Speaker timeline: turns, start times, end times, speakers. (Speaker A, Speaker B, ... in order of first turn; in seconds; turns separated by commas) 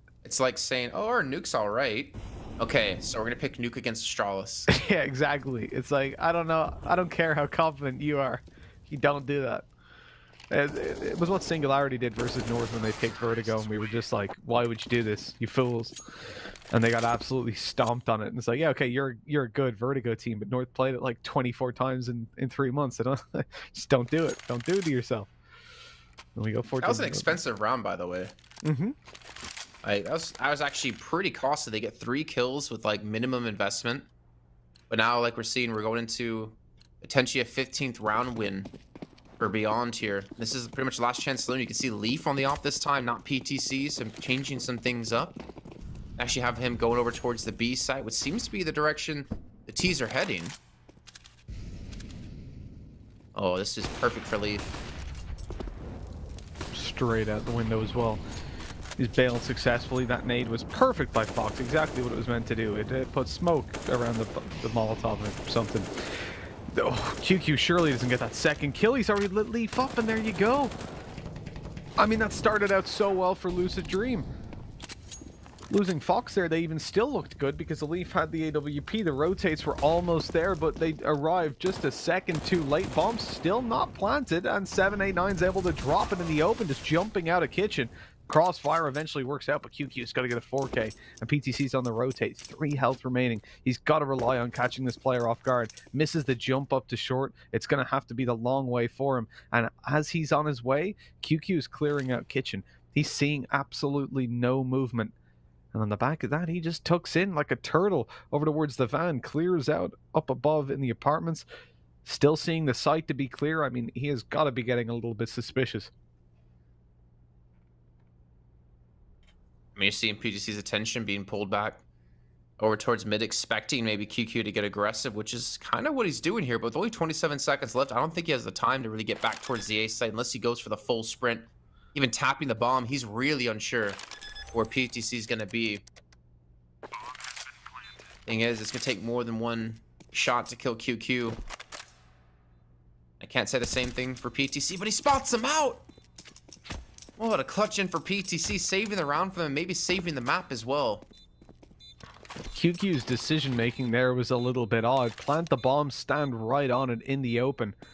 Speaker A: 0.2-4.7, Speaker B: 4.7-9.7, Speaker B: 10.5-16.0, Speaker B: 16.7-25.3, Speaker B: 26.4-27.4, Speaker A: 26.8-28.3, Speaker B: 28.6-28.9, Speaker A: 29.8-34.1, Speaker A: 34.9-38.7, Speaker A: 39.4-45.4, Speaker A: 46.2-50.6, Speaker A: 53.4-54.7, Speaker B: 56.7-58.2, Speaker B: 59.0-70.8, Speaker B: 72.0-74.3, Speaker B: 75.7-105.1, Speaker B: 105.7-111.5, Speaker B: 112.0-115.9, Speaker A: 119.8-121.8, Speaker A: 122.6-134.0, Speaker A: 134.5-135.8, Speaker A: 138.3-141.4, Speaker A: 143.2-145.8, Speaker A: 147.2-151.1, Speaker B: 152.5-157.8